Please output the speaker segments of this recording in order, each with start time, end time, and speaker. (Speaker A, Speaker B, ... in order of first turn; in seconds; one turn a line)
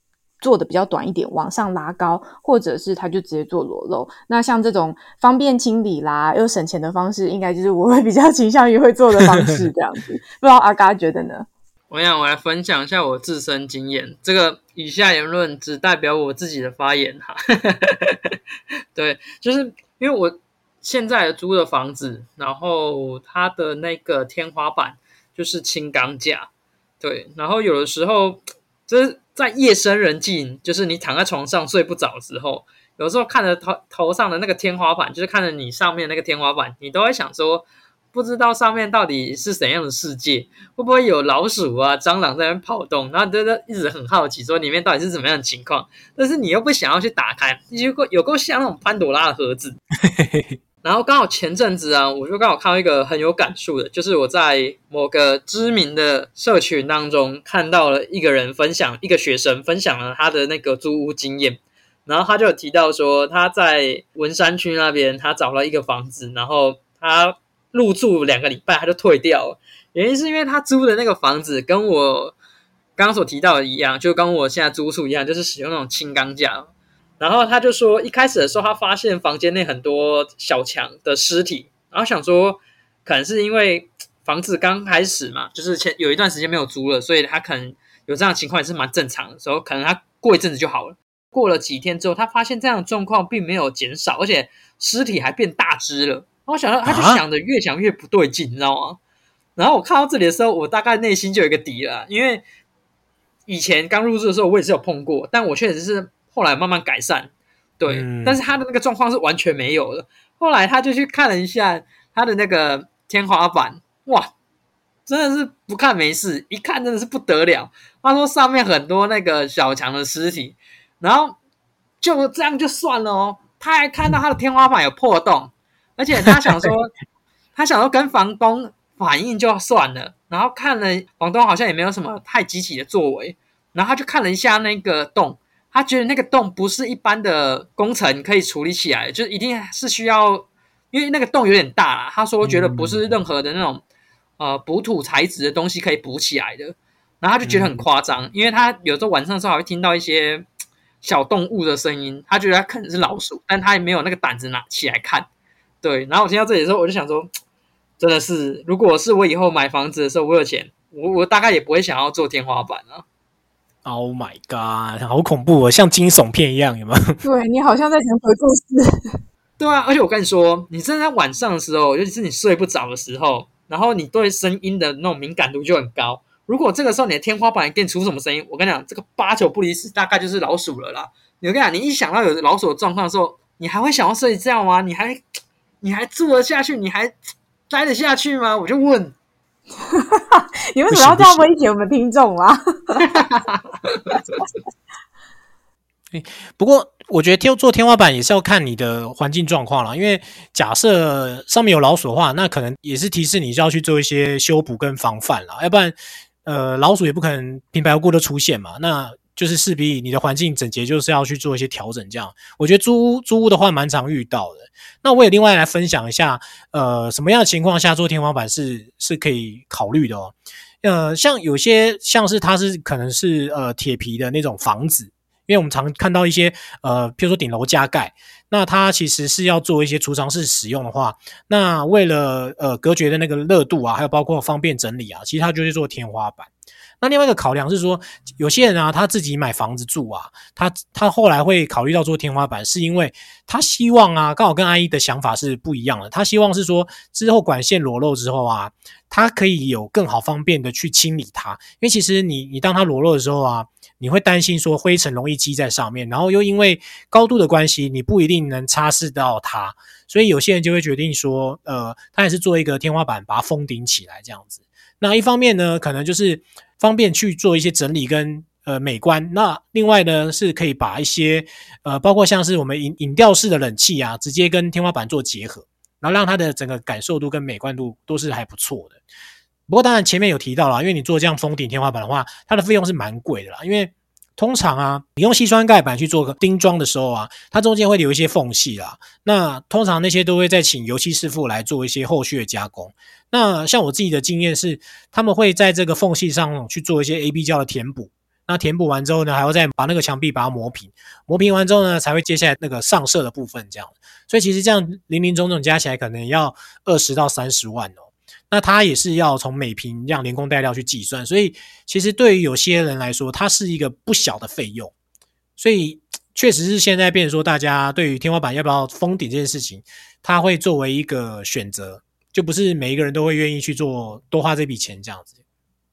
Speaker A: 0.4-11.4
Speaker B: 11.9-18.3
Speaker B: 18.9-26.5
Speaker B: 27.0-49.8
Speaker C: 50.1-50.5
Speaker B: 50.8-72.3
Speaker B: 73.0-99.0
Speaker C: 96.8-97.2
Speaker B: 99.5-102.4
Speaker B: 103.5-114.3
Speaker C: 107.9-108.4
Speaker B: 115.0-121.4
Speaker B: 122.0-126.9
Speaker B: 127.5-143.8
Speaker C: 142.4-143.0
Speaker B: 144.4-150.4
Speaker C: 147.4-147.8
Speaker B: 151.0-155.3
Speaker B: 155.8-157.3
Speaker B: 158.0-163.0
Speaker C: 163.8-167.2
Speaker A: 167.2-168.9
Speaker B: 169.6-185.2
Speaker B: 185.8-187.2
Speaker B: 187.7-189.1
Speaker A: 189.9-193.2
Speaker C: 190.9-191.5
Speaker B: 193.1-193.6
Speaker C: 196.1-236.5
Speaker C: 237.0-279.0
Speaker C: 279.7-314.9
Speaker C: 315.6-325.3